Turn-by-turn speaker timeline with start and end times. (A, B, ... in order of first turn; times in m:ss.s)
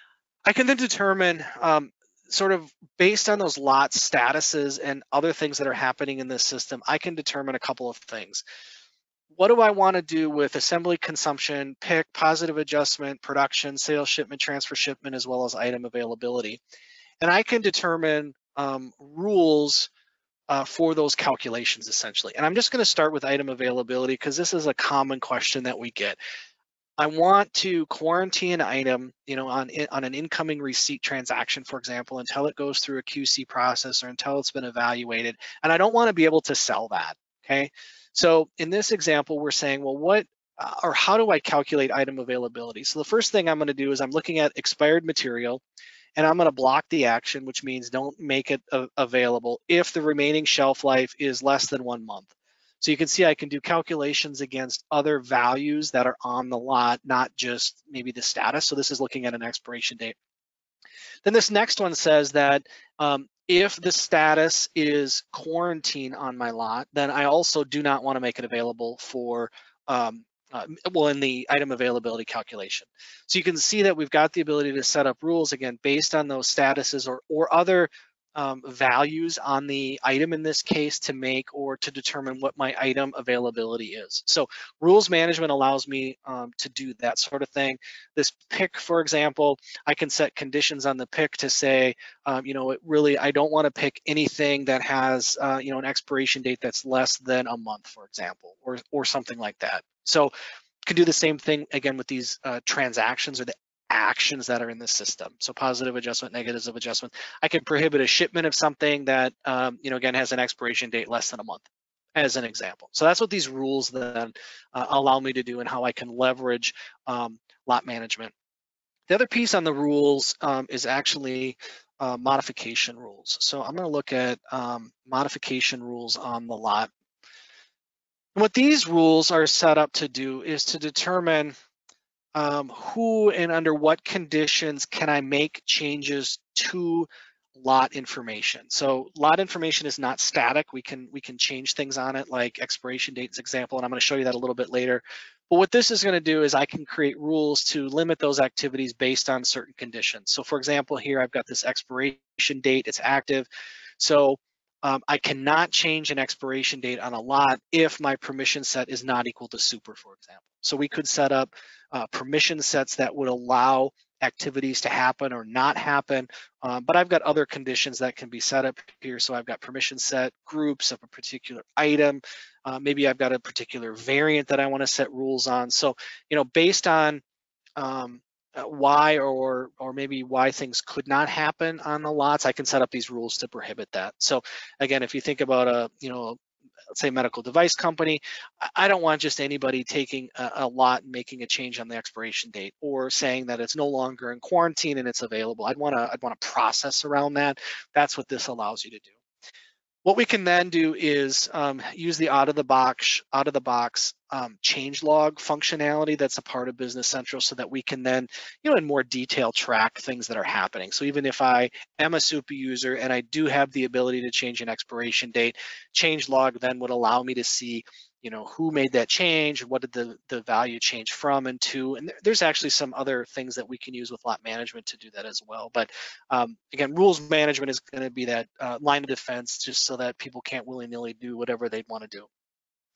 0:00.5-0:08.4 A
0:09.3-0:16.6 A
0:17.2-0:19.9 A
0:20.5-0:26.2 A
0:27.0-0:45.6 A
0:46.2-1:00.2 A
1:01.2-1:40.3 A
1:40.8-1:58.3 A
1:59.1-2:06.9 A
2:08.4-2:11.5 A
2:12.4-2:33.5 A
2:34.0-2:57.2 A
2:57.8-3:06.4 A
3:06.9-3:19.1 A
3:20.0-3:52.3 A